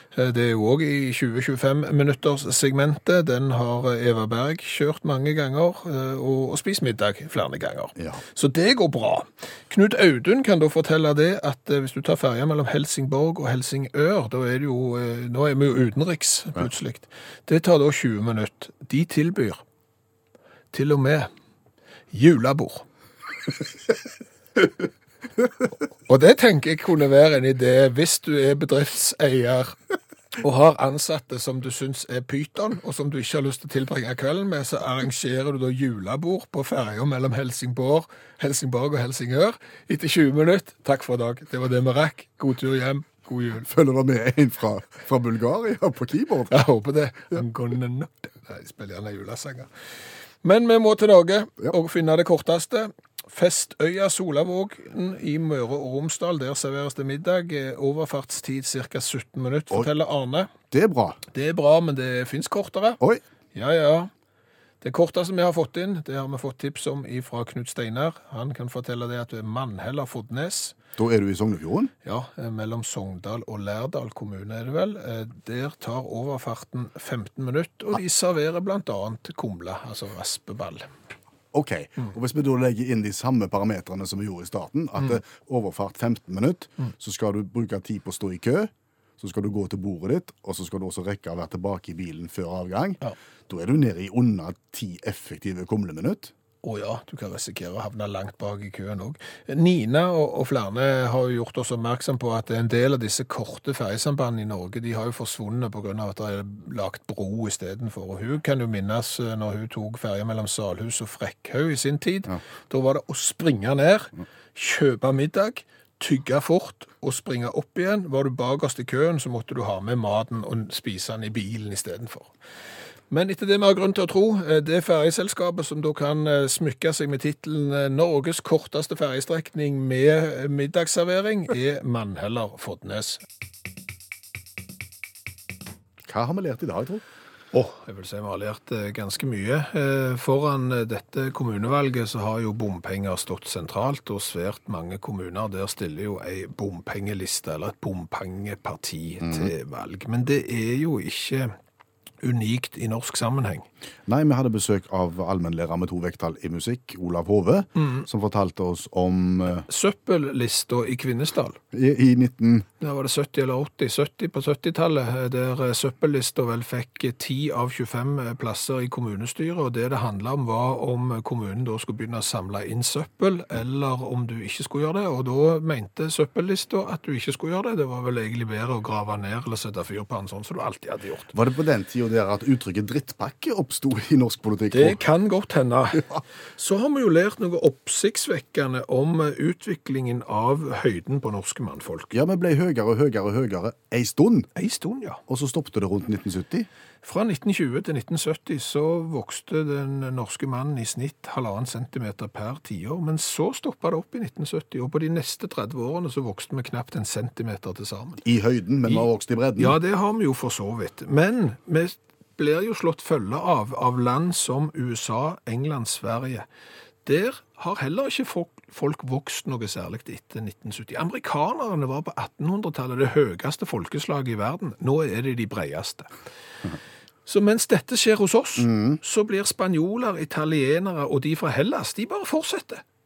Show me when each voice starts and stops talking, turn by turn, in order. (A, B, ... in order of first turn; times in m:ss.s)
0:00.1-0:19.6 A
0:08.0-0:08.2 B
0:20.7-0:21.3 A
0:22.1-0:22.8 A
0:26.0-0:29.8 A
0:30.4-0:43.7 A
0:43.6-0:46.6 B
0:46.5-0:49.7 A
0:50.4-1:00.5 A
1:00.7-1:01.2 B
1:01.3-1:03.0 A
1:03.5-1:04.1 A
1:04.8-1:10.8 A
1:11.0-1:11.9 B
1:12.0-1:20.9 A
1:21.5-1:36.3 B
1:36.6-2:02.3 A
2:03.1-2:13.2 A
2:16.0-2:17.0 B
2:17.5-2:31.5 A
2:29.2-2:29.5 B
2:32.2-2:33.7 A
2:34.1-2:39.6 B
2:37.8-2:38.0 A
2:39.7-2:41.6 A
2:41.7-2:42.7 B
2:42.8-3:01.3 A
3:01.3-3:05.0 B
3:04.7-3:12.1 A
3:12.1-3:14.5 B
3:14.6-3:15.2 A
3:15.3-3:16.7 B
3:17.0-3:28.2 A
3:28.2-3:29.8 B
3:29.6-3:36.4 A
3:37.0-3:46.1 A
3:47.2-3:52.8 A
3:48.6-3:49.0 B